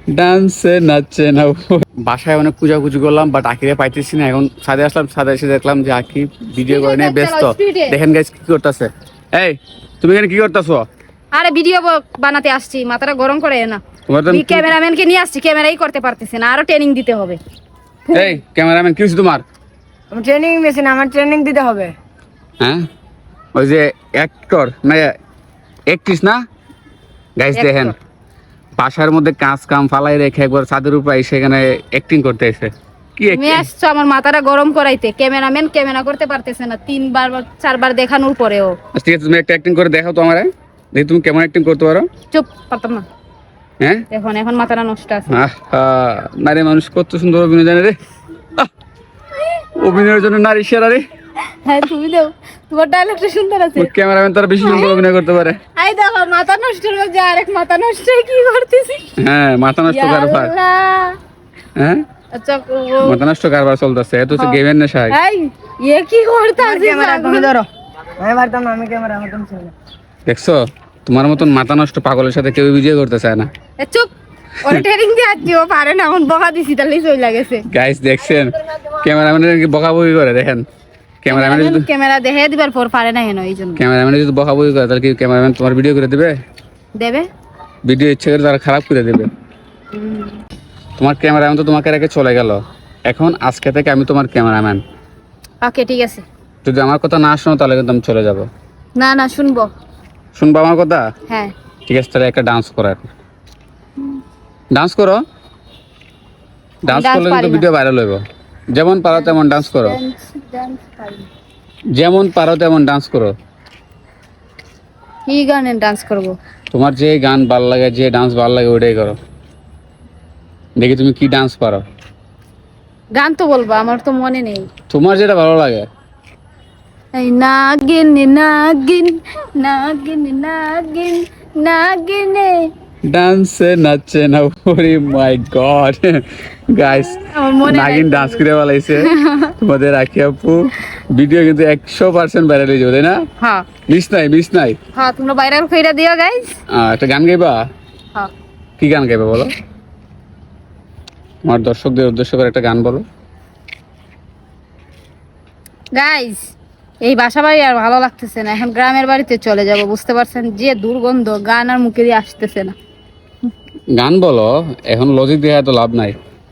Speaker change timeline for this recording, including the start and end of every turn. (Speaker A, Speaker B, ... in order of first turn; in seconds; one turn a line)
Speaker A: 0.1-10.8
Speaker B: 6.7-8.0
Speaker B: 11.3-17.4
Speaker A: 14.1-14.7
Speaker B: 18.1-18.4
Speaker A: 18.1-19.4
Speaker C: 20.1-21.9
Speaker A: 22.6-22.9
Speaker A: 23.6-25.1
Speaker A: 25.9-26.4
Speaker A: 27.4-27.9
Speaker B: 27.6-27.9
Speaker A: 28.8-33.7
Speaker B: 33.3-38.8
Speaker A: 38.9-42.1
Speaker B: 42.3-43.0
Speaker A: 43.8-44.0
Speaker B: 44.1-45.3
Speaker A: 45.3-48.0
Speaker A: 49.8-51.0
Speaker B: 51.6-53.9
Speaker A: 53.8-55.6
Speaker B: 54.6-55.0
Speaker B: 55.8-59.1
Speaker A: 59.2-60.5
Speaker B: 59.9-61.2
Speaker A: 61.8-62.0
Speaker B: 62.3-63.2
Speaker A: 63.0-65.2
Speaker B: 64.3-67.5
Speaker C: 66.6-67.7
Speaker C: 68.2-69.7
Speaker A: 70.2-73.5
Speaker B: 73.8-74.1
Speaker B: 74.6-77.6
Speaker A: 77.7-80.6
Speaker A: 81.2-81.9
Speaker B: 81.3-83.8
Speaker A: 83.8-86.3
Speaker B: 87.0-87.2
Speaker A: 87.8-89.3
Speaker B: 89.9-90.4
Speaker A: 91.0-94.8
Speaker B: 95.6-96.2
Speaker A: 96.6-98.5
Speaker B: 99.0-99.7
Speaker A: 100.3-101.0
Speaker A: 101.9-103.1
Speaker A: 104.7-105.2
Speaker A: 106.8-108.2
Speaker B: 106.9-107.7
Speaker A: 108.7-110.0
Speaker B: 109.1-111.3
Speaker A: 111.9-113.3
Speaker B: 115.3-116.3
Speaker A: 116.7-119.2
Speaker A: 120.8-121.8
Speaker B: 123.1-124.7
Speaker A: 124.9-125.8
Speaker B: 127.1-132.7
Speaker A: 133.1-143.2
Speaker B: 136.8-138.4
Speaker B: 138.9-139.5
Speaker B: 143.4-143.7
Speaker A: 143.9-144.8
Speaker B: 144.9-146.6
Speaker A: 146.7-147.6
Speaker A: 148.8-149.5
Speaker A: 151.4-153.0
Speaker B: 155.9-156.4
Speaker B: 157.0-162.8
Speaker A: 164.0-166.2